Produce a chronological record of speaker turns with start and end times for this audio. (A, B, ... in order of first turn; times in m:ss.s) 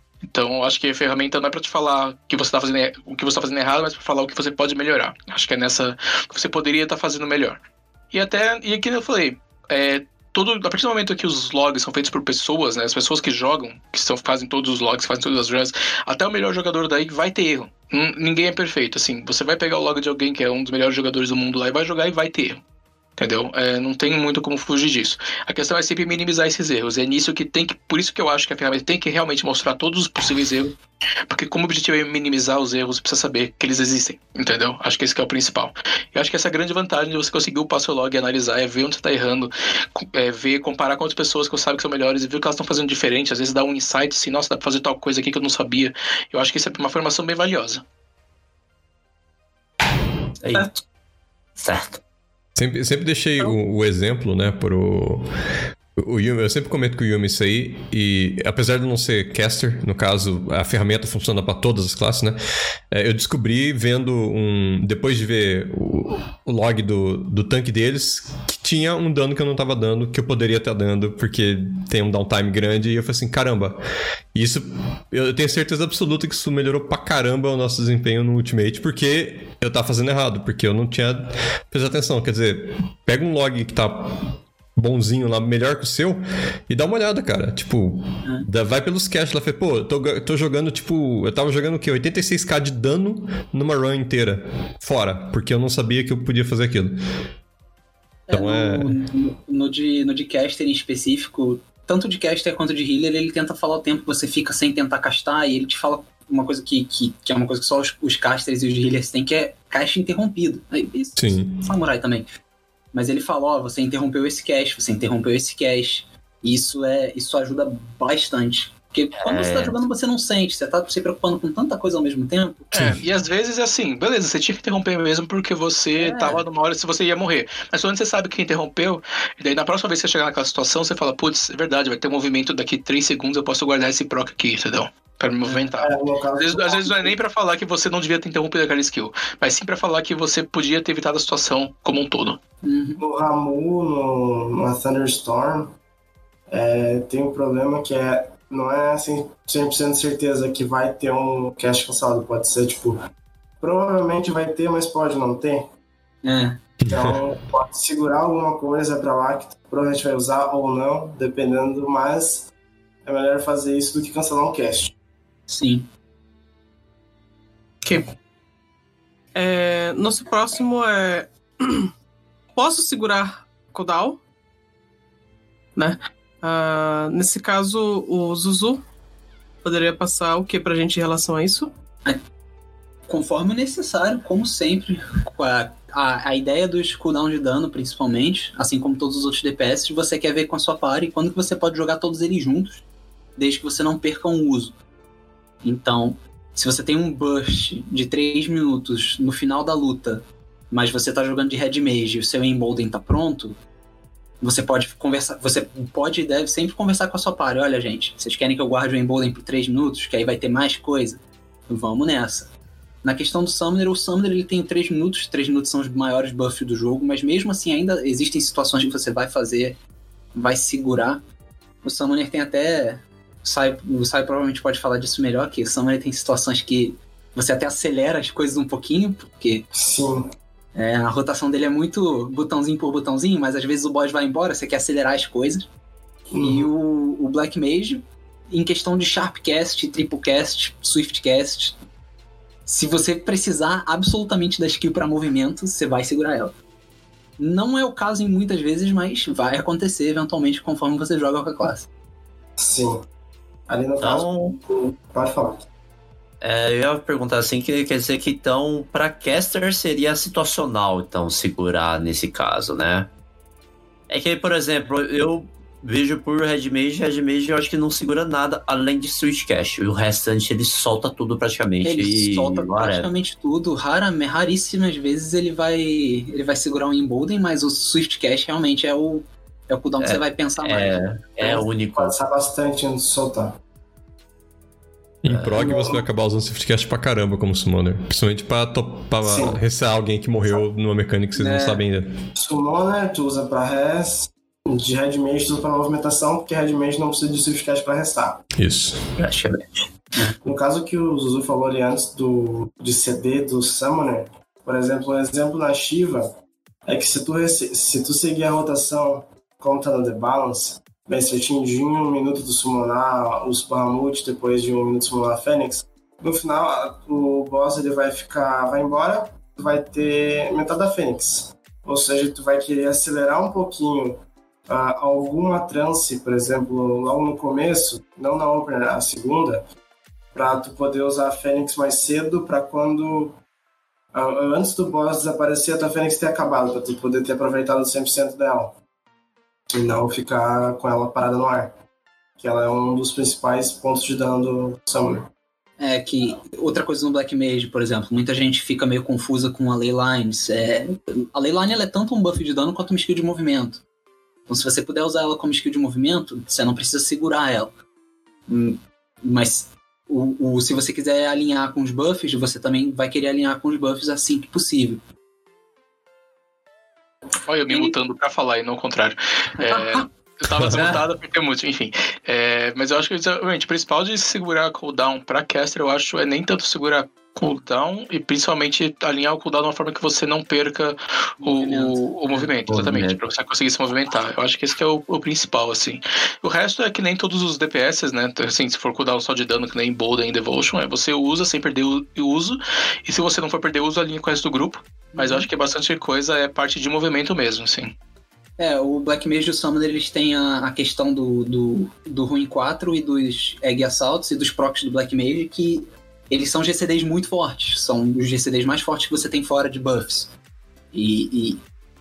0:00.3-0:22.6 A
0:23.2-0:30.8 A
0:31.3-0:47.8 A
0:50.4-0:50.7 B
0:51.6-0:52.0 B
0:52.6-0:55.3 C
0:56.0-1:02.4 C
1:02.9-1:13.8 C
1:14.3-1:37.0 C
1:38.3-1:52.3 D
1:38.3-1:39.0 C
1:51.2-1:51.7 C
1:52.9-2:03.0 D
1:59.2-1:59.8 B
2:02.7-2:22.4 A
2:06.0-2:06.4 D
2:15.4-2:15.8 D
2:15.8-2:17.1 E
2:22.6-2:23.0 D
2:23.0-2:25.8 E
2:26.5-2:33.0 E
2:33.6-2:35.7 E
2:36.2-2:36.6 D
2:36.8-2:37.2 C
2:36.9-2:42.5 E
2:43.0-2:44.9 E
2:45.5-2:45.9 D
2:49.4-2:51.9 F
2:52.6-2:54.2 F
2:55.8-2:58.8 F
2:59.6-3:01.7 F
3:03.1-3:12.8 D
3:13.4-3:14.8 D
3:15.6-3:23.6 D
3:24.4-3:32.5 D
3:33.0-3:39.8 D
3:40.3-3:41.2 D
3:41.8-3:49.7 D
3:49.7-3:50.3 E
3:50.8-3:55.7 D
3:56.3-3:56.7 E
3:56.4-4:01.8 D
4:02.7-4:06.6 D
4:07.4-4:11.9 D
4:12.6-4:13.0 E
4:13.7-4:15.6 E
4:14.0-4:14.6 B
4:16.4-4:23.1 B
4:24.1-4:33.1 B
4:31.8-4:41.0 D
4:40.0-4:42.2 B
4:41.4-4:43.6 E
4:45.2-4:52.1 C
4:45.3-4:45.6 B
4:45.6-4:46.0 E
4:49.2-4:49.6 E
4:51.4-4:51.8 D
4:52.4-4:58.4 E
4:58.6-4:59.0 C
4:59.2-4:59.7 B
5:00.4-5:06.4 E
5:06.9-5:29.6 E
5:30.3-5:33.4 E
5:34.1-5:38.8 E
5:39.7-5:41.8 E
5:42.4-5:45.3 E
5:45.8-5:53.8 D
5:54.5-5:57.7 D
5:58.5-6:05.0 D
6:07.5-6:37.9 A
6:09.6-6:10.1 D
6:10.5-6:10.8 C
6:10.7-6:11.0 D
6:21.4-6:22.5 D
6:22.7-6:23.2 B
6:35.2-6:35.5 D
6:38.6-6:50.3 D
6:50.9-6:51.6 D